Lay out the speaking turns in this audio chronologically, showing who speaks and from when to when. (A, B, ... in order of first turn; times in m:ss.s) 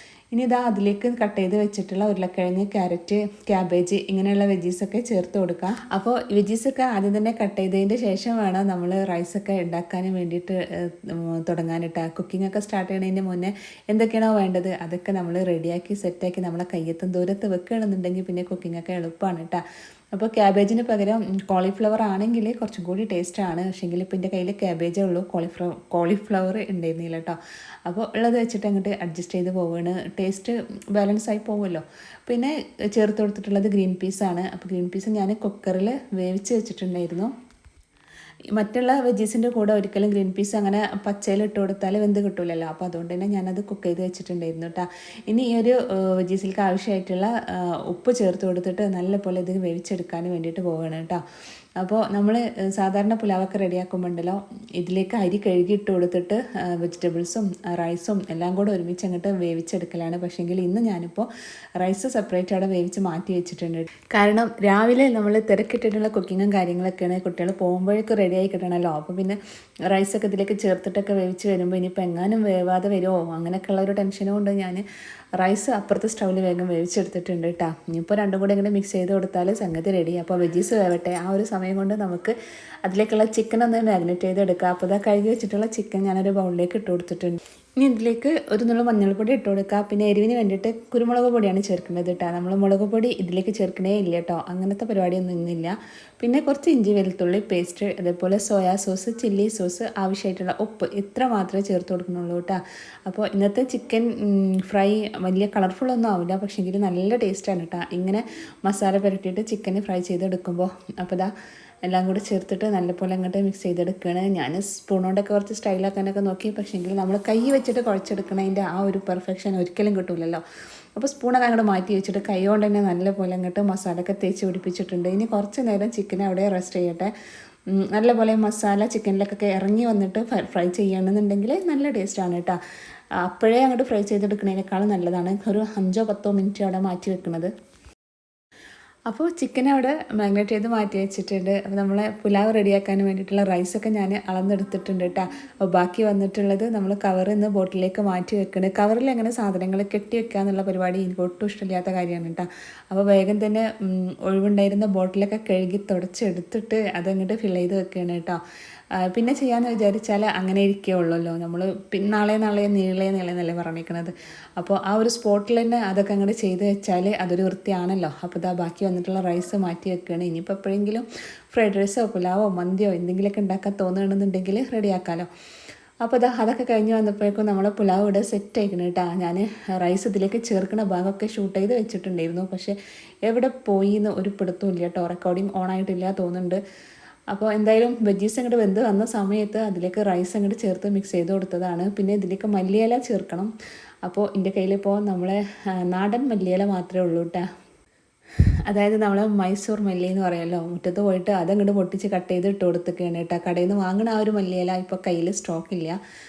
0:00.3-0:19.6 A
0:20.1-0:37.3 A
0:38.5-0:51.2 A
0:51.8-1:14.8 A
1:15.4-1:51.3 A
1:51.8-2:00.4 A
2:01.0-2:07.1 A
2:07.7-2:12.6 A
2:13.2-2:17.5 A
2:19.1-2:38.4 A
2:39.0-2:55.3 A
2:56.0-3:06.6 A
3:07.3-3:13.5 A
3:14.0-3:17.5 A
3:18.7-3:26.0 A